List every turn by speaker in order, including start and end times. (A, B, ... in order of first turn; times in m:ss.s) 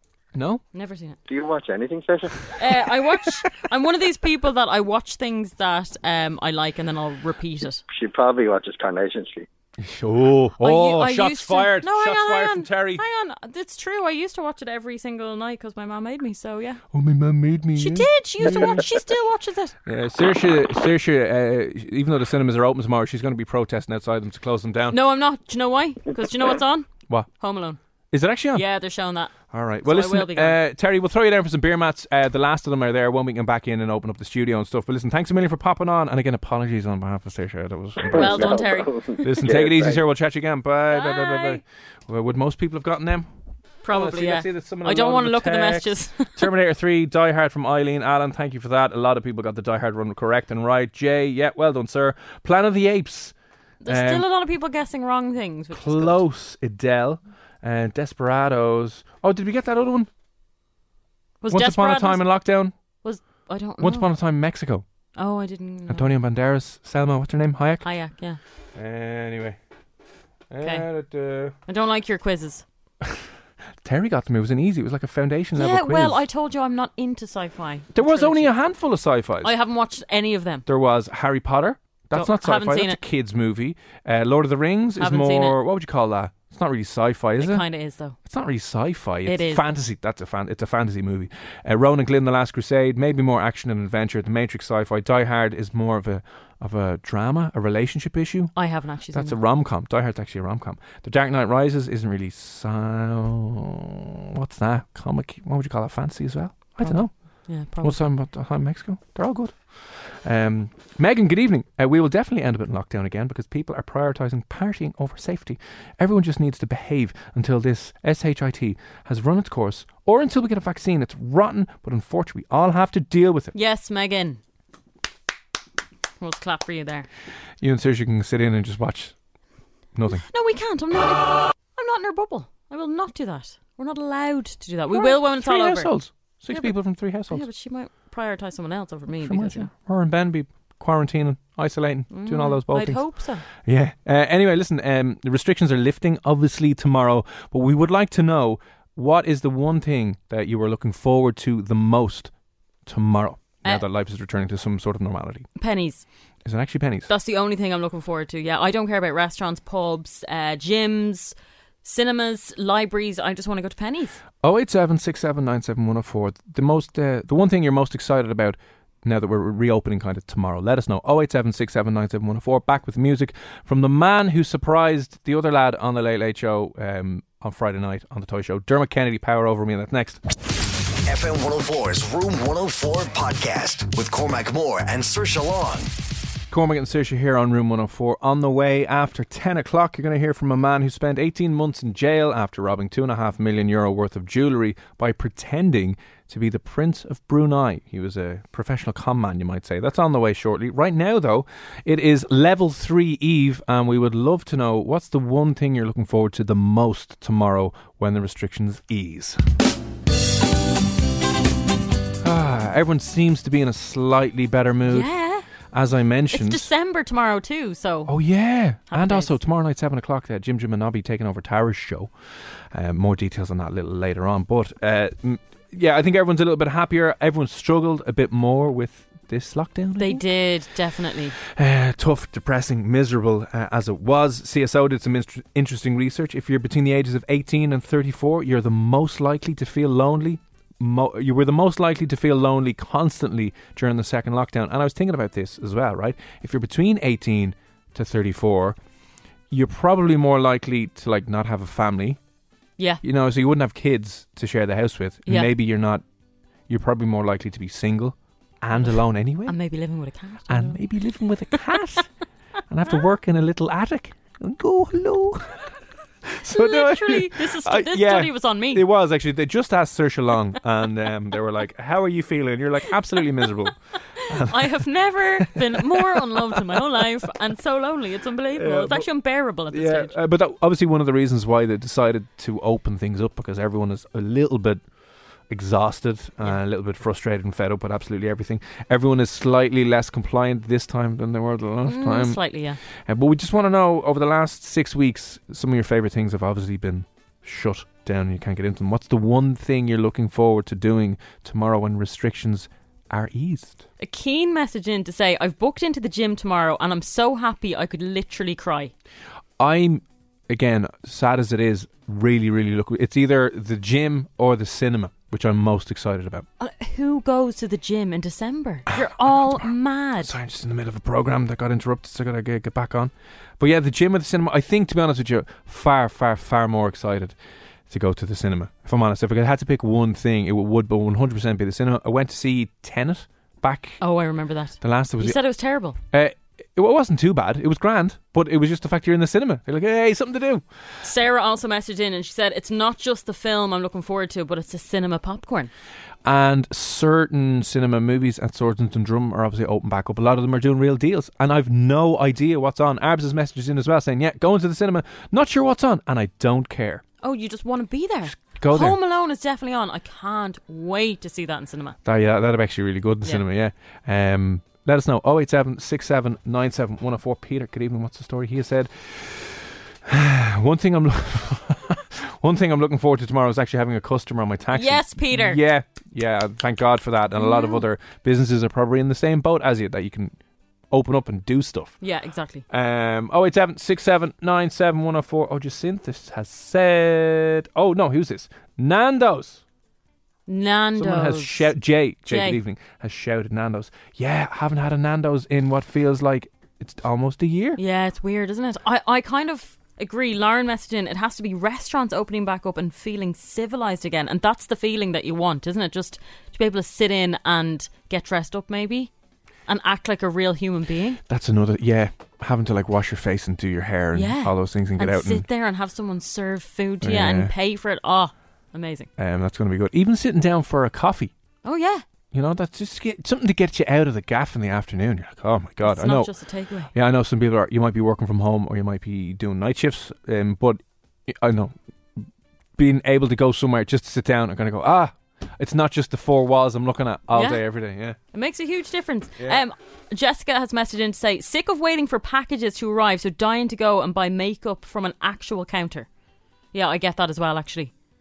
0:00.4-0:00.6 A
0:00.7-0:01.2 B
0:01.3-0:02.5 C
0:02.6-0:07.8 B
0:07.9-0:09.5 C
0:09.8-0:13.0 A
0:10.6-0:16.8 B
0:16.9-0:18.8 A
0:17.8-0:19.8 B
0:19.9-0:25.0 A
0:24.9-0:27.8 B
0:28.1-0:28.6 A
0:28.5-0:29.3 B
0:29.5-0:38.6 A
0:29.8-0:30.6 B
0:38.1-0:40.0 C
0:38.1-0:39.0 B
0:39.2-0:43.3 A
0:40.9-0:41.6 B
0:43.8-0:46.5 B
0:43.9-0:53.3 A
0:53.8-0:56.2 B
0:53.9-0:54.2 A
0:55.7-1:00.1 A
1:01.4-1:02.2 B
1:01.5-1:02.7 A
1:03.0-1:04.1 B
1:03.8-1:04.8 A
1:05.2-1:06.1 B
1:05.9-1:07.9 A
1:07.8-1:08.4 B
1:08.8-1:09.6 A
1:10.5-1:11.6 A
1:10.6-1:10.9 B
1:11.7-1:12.6 B
1:13.8-1:16.2 A
1:15.6-1:18.6 B
1:18.0-1:19.5 A
1:19.4-1:20.6 B
1:20.7-1:27.6 A
1:22.1-1:23.0 B
1:25.0-1:25.6 B
1:27.4-1:28.2 B
1:28.2-1:38.6 A
1:29.3-1:29.6 B
1:38.6-1:39.4 B
1:39.1-2:03.5 A
1:46.8-1:48.0 B
2:03.5-2:04.4 B
2:06.2-2:07.1 B
2:07.6-2:09.2 A
2:09.9-2:10.3 A
2:10.1-2:15.9 B
2:14.9-2:17.4 A
2:16.5-2:16.8 B
2:17.3-2:19.7 B
2:19.2-2:32.3 A
2:22.1-2:23.4 B
2:32.8-2:35.5 A
2:35.6-2:36.0 B
2:36.4-2:37.1 A
2:37.1-2:44.2 B
2:44.4-3:00.2 A
3:01.1-3:05.9 D
3:06.5-3:29.4 A
3:32.2-3:35.1 A
3:34.9-3:35.5 B
3:35.7-3:36.7 A
3:36.3-3:38.1 B
3:38.1-3:42.1 A
3:38.9-3:39.3 B
3:42.7-3:50.2 A
3:50.0-3:51.4 B
3:51.4-4:08.8 A
4:09.5-4:12.2 A
4:13.0-4:16.0 A
4:16.7-4:19.6 A
4:18.8-4:20.8 B
4:20.5-4:22.1 A
4:22.7-4:25.7 A
4:26.3-4:34.8 A
4:26.5-4:28.8 B
4:34.2-4:40.2 B
4:35.4-4:36.4 A
4:38.6-4:39.1 A
4:39.7-4:44.8 A
4:45.5-4:52.4 A
4:51.9-4:52.8 B
4:53.0-5:03.8 A
5:04.0-5:08.9 B
5:09.6-5:16.5 A
5:16.6-5:20.3 B
5:18.9-5:19.6 A
5:20.2-5:27.4 A
5:27.9-5:34.0 A
5:34.0-5:36.0 B
5:34.8-5:35.4 A
5:36.1-5:40.6 A
5:41.0-5:45.7 B
5:46.2-5:57.0 A
5:57.2-6:02.0 B
5:58.4-5:59.0 A
6:02.0-6:20.3 A
6:14.7-6:15.6 B
6:17.4-6:17.8 B
6:20.9-6:22.0 A
6:22.0-6:22.6 B
6:22.7-6:29.6 A
6:30.5-6:31.7 B
6:31.0-6:37.8 A
6:32.3-6:32.6 B
6:37.8-6:49.1 B
6:49.7-6:51.2 B
6:51.3-6:55.4 A
6:54.1-6:59.1 B
6:57.0-6:57.5 A
6:59.2-7:01.3 A
7:01.6-7:02.0 B
7:02.3-7:06.3 A
7:05.8-7:06.9 B
7:06.9-7:12.2 A
7:12.8-7:18.2 A
7:17.3-7:17.6 B
7:18.3-7:26.1 B
7:26.7-7:27.9 B